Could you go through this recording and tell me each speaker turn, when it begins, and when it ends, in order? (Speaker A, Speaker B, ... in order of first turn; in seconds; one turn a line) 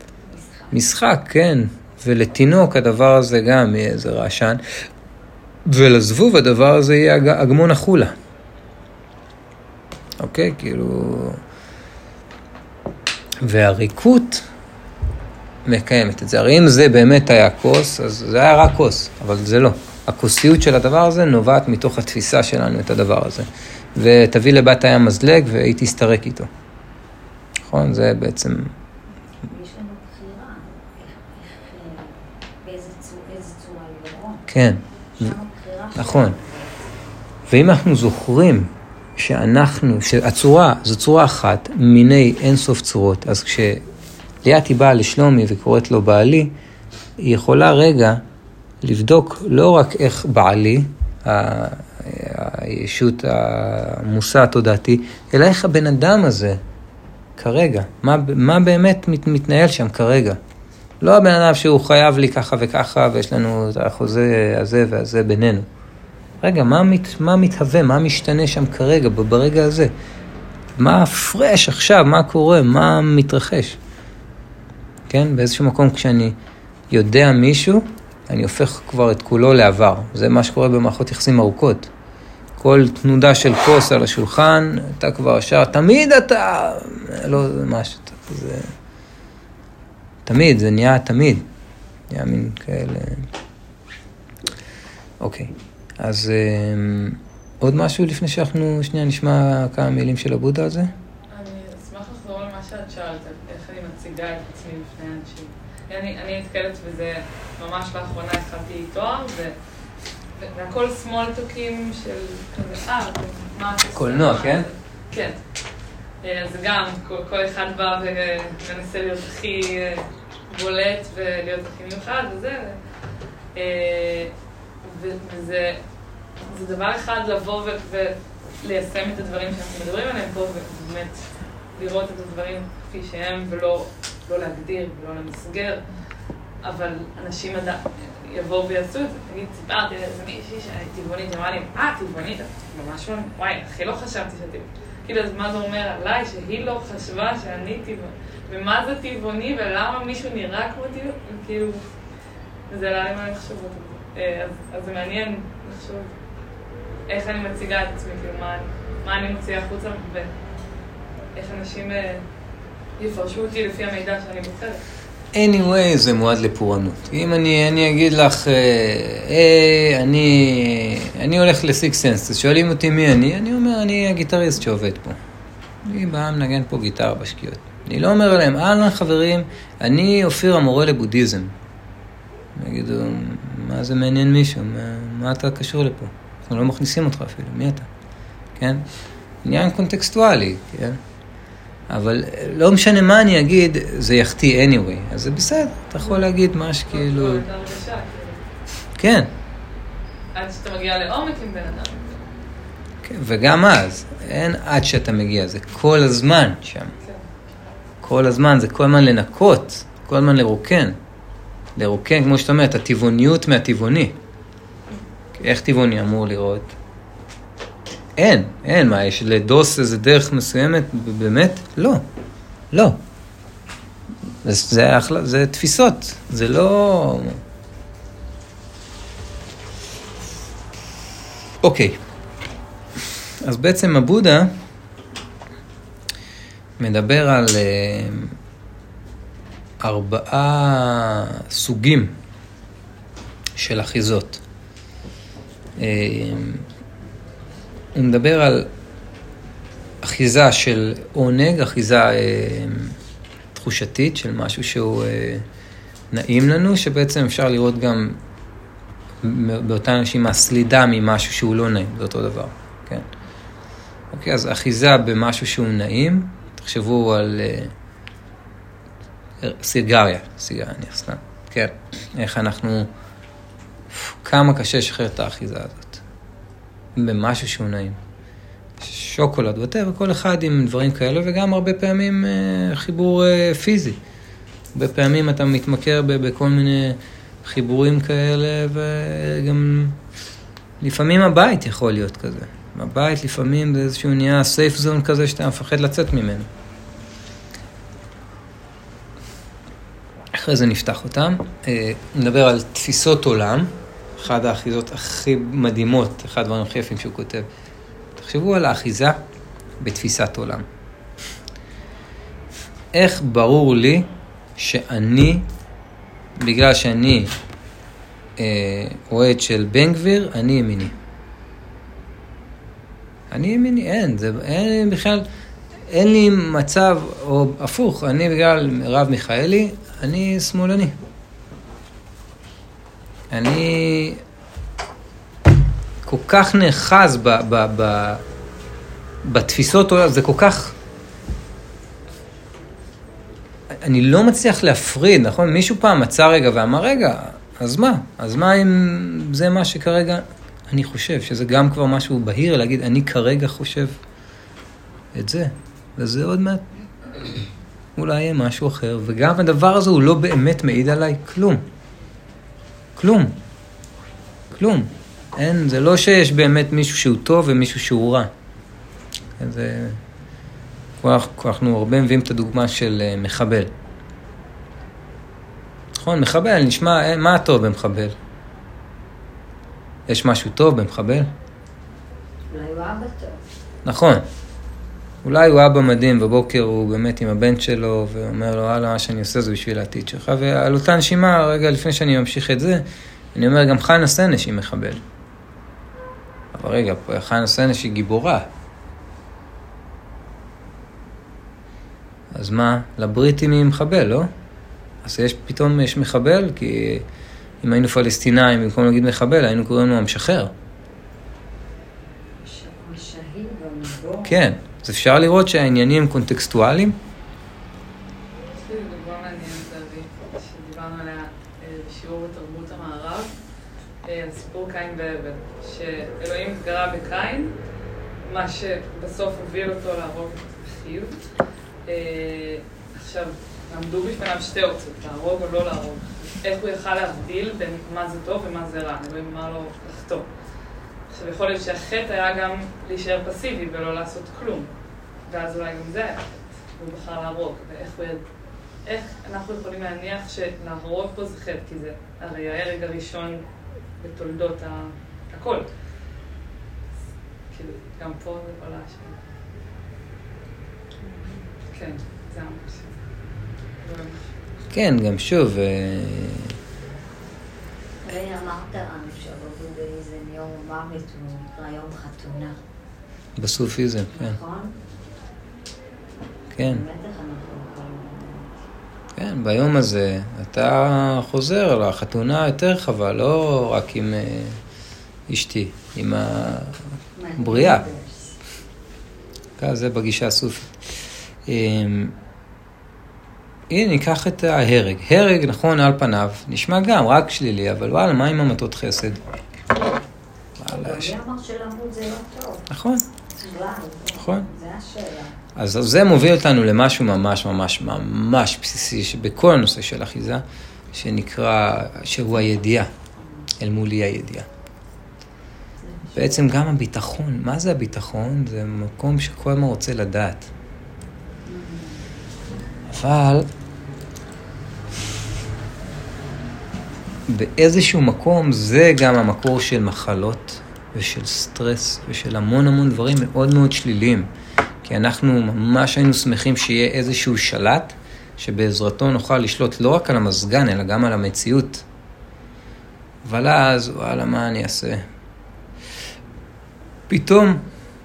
Speaker A: 0.3-0.9
Speaker B: 0.7-4.6
Speaker B: 5.7-8.1
Speaker B: 10.2-11.4
Speaker B: 13.4-14.5
Speaker B: 15.7-26.5
Speaker B: 27.6-28.7
Speaker A: 29.5-34.5
Speaker B: 34.5-35.3
Speaker A: 35.1-37.0
Speaker B: 36.0-36.4
Speaker B: 37.5-43.8
Speaker B: 44.4-46.5
Speaker B: 47.2-48.2
Speaker B: 48.8-56.6
Speaker B: 57.4-60.4
Speaker B: 61.0-65.7
Speaker B: 66.4-69.9
Speaker B: 70.8-73.8
Speaker B: 75.1-76.4
Speaker B: 76.9-81.9
Speaker B: 82.6-88.7
Speaker B: 90.3-91.5
Speaker B: 92.1-93.3
Speaker B: 95.2-100.9
Speaker C: 101.3-109.5
Speaker C: 110.4-115.4
Speaker B: 113.9-114.7
Speaker C: 116.2-122.8
Speaker C: 123.5-125.8
Speaker C: 126.5-135.9
Speaker C: 136.6-151.8
Speaker C: 152.7-156.1
Speaker C: 157.1-160.3
Speaker C: 161.3-162.2
Speaker C: 163.0-164.8
Speaker B: 165.3-175.2
Speaker B: 175.8-181.5
Speaker B: 182.6-187.9
Speaker B: 188.6-188.8
Speaker B: 189.4-191.0
Speaker B: 191.9-197.4
Speaker C: 196.9-198.4
Speaker B: 199.0-199.3
Speaker C: 200.3-202.2
Speaker B: 203.0-206.9
Speaker B: 208.0-210.9
Speaker B: 211.8-214.2
Speaker B: 215.4-216.7
Speaker B: 218.2-222.0
Speaker B: 222.7-223.0
Speaker B: 224.4-227.4
Speaker B: 231.6-232.0
Speaker B: 233.4-234.5
Speaker B: 236.8-238.3
Speaker B: 239.8-242.1
Speaker B: 243.6-244.4
Speaker B: 245.8-246.6
Speaker B: 247.9-248.7
Speaker B: 250.0-252.9
Speaker B: 253.5-255.4
Speaker B: 256.1-258.2
Speaker B: 259.2-263.1
Speaker B: 264.1-267.7
Speaker B: 269.4-272.9
Speaker B: 273.9-276.0
Speaker B: 277.0-278.0
Speaker B: 278.8-284.0
Speaker B: 284.7-290.0
Speaker B: 290.8-296.5
Speaker B: 300.3-307.4
Speaker B: 308.2-309.2
Speaker B: 309.8-310.7
Speaker B: 312.9-315.4
Speaker B: 316.4-317.3
Speaker B: 318.4-320.9
Speaker B: 323.3-325.3
Speaker B: 325.9-330.9
Speaker B: 333.3-334.2
Speaker B: 336.1-338.2
Speaker B: 339.2-340.7
Speaker B: 343.8-353.9
Speaker B: 355.1-356.6
Speaker B: 357.9-361.6
Speaker B: 363.0-363.4
Speaker B: 364.5-368.3
Speaker B: 369.4-370.0
Speaker B: 371.0-373.7
Speaker B: 376.0-378.1
Speaker B: 380.1-381.3
Speaker A: 382.5-383.4
Speaker B: 383.9-384.2
Speaker B: 385.2-395.0
Speaker B: 396.5-398.5
Speaker B: 402.3-404.3
Speaker B: 405.0-407.1
Speaker B: 407.6-410.5
Speaker A: 412.4-414.4
Speaker B: 414.2-417.0
Speaker C: 418.5-423.4
Speaker C: 424.0-427.6
Speaker C: 428.2-431.2
Speaker C: 431.9-440.3
Speaker C: 441.1-444.7
Speaker C: 445.3-448.2
Speaker C: 448.9-453.4
Speaker C: 454.0-455.7
Speaker C: 457.5-459.2
Speaker C: 461.7-462.9
Speaker C: 463.8-464.2
Speaker B: 464.7-466.5
Speaker A: 468.0-472.6
Speaker B: 473.4-474.4
Speaker A: 474.1-474.8
Speaker B: 476.5-476.8
Speaker A: 476.6-478.6
Speaker B: 479.2-484.6
Speaker B: 485.3-486.8
Speaker A: 487.1-488.4
Speaker B: 487.4-487.9
Speaker B: 489.6-490.7
Speaker B: 491.4-492.1
Speaker B: 493.7-499.2
Speaker B: 500.6-501.1
Speaker A: 500.7-502.7
Speaker B: 502.7-503.0
Speaker A: 503.4-505.4
Speaker B: 504.2-504.5
Speaker B: 505.6-512.9
Speaker A: 513.2-513.5
Speaker B: 513.6-514.5
Speaker A: 515.8-516.5
Speaker B: 516.1-520.5
Speaker A: 521.5-522.1
Speaker B: 522.9-523.5
Speaker B: 527.3-534.3
Speaker B: 534.8-541.8
Speaker B: 543.2-545.0
Speaker B: 547.1-547.6